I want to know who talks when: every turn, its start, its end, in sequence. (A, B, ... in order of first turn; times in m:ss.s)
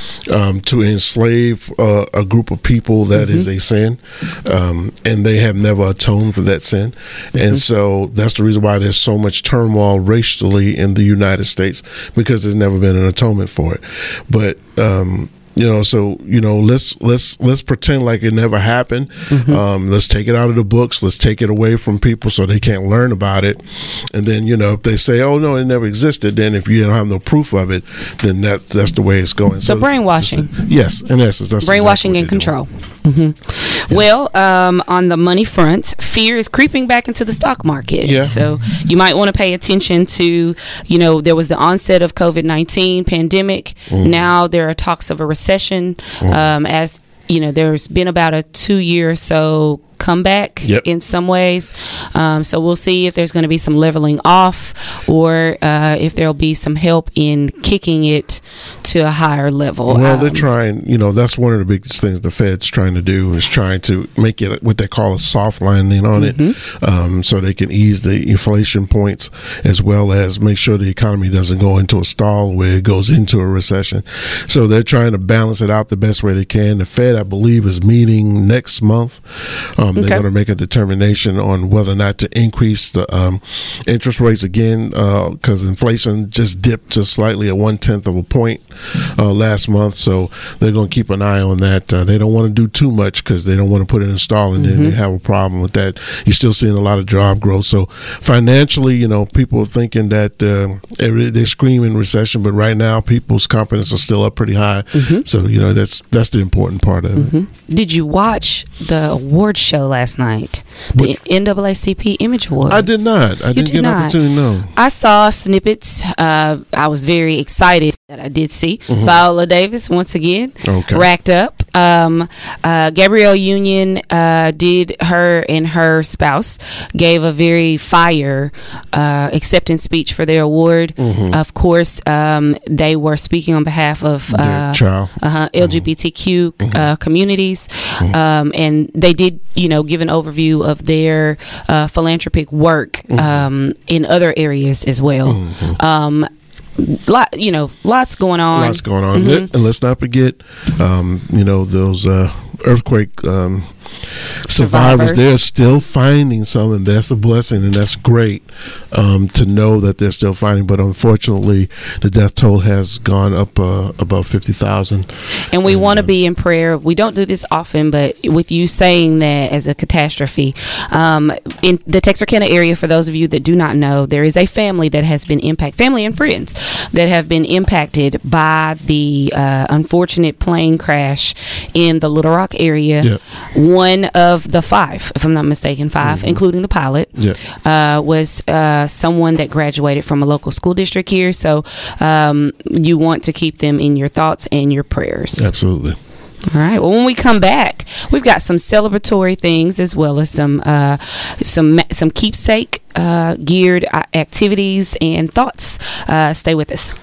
0:00.3-0:32.5 A
0:03.1-0:03.5 B
0:19.3-0:19.6 B
0:29.6-0:30.5 B
0:31.6-1:00.5 B
0:38.0-0:38.4 A
0:43.9-0:44.2 A
0:46.2-0:46.5 A
0:59.9-1:47.3 A
1:06.2-1:06.6 B
1:20.0-1:20.2 B
1:34.6-1:35.0 B
1:44.9-1:45.2 B
1:47.2-1:54.2 B
1:52.7-1:54.7 A
1:54.7-2:29.5 B
1:58.9-1:59.2 A
2:00.6-2:01.1 A
2:11.0-2:11.4 A
2:14.3-2:15.8 A
2:23.1-2:23.4 A
2:25.2-2:25.8 A
2:28.5-2:33.7 A
2:34.4-2:45.1 A
2:34.5-2:35.3 B
2:45.5-3:15.5 B
2:45.6-2:46.1 A
3:06.0-3:06.4 A
3:15.3-3:16.0 A
3:16.5-3:26.9 B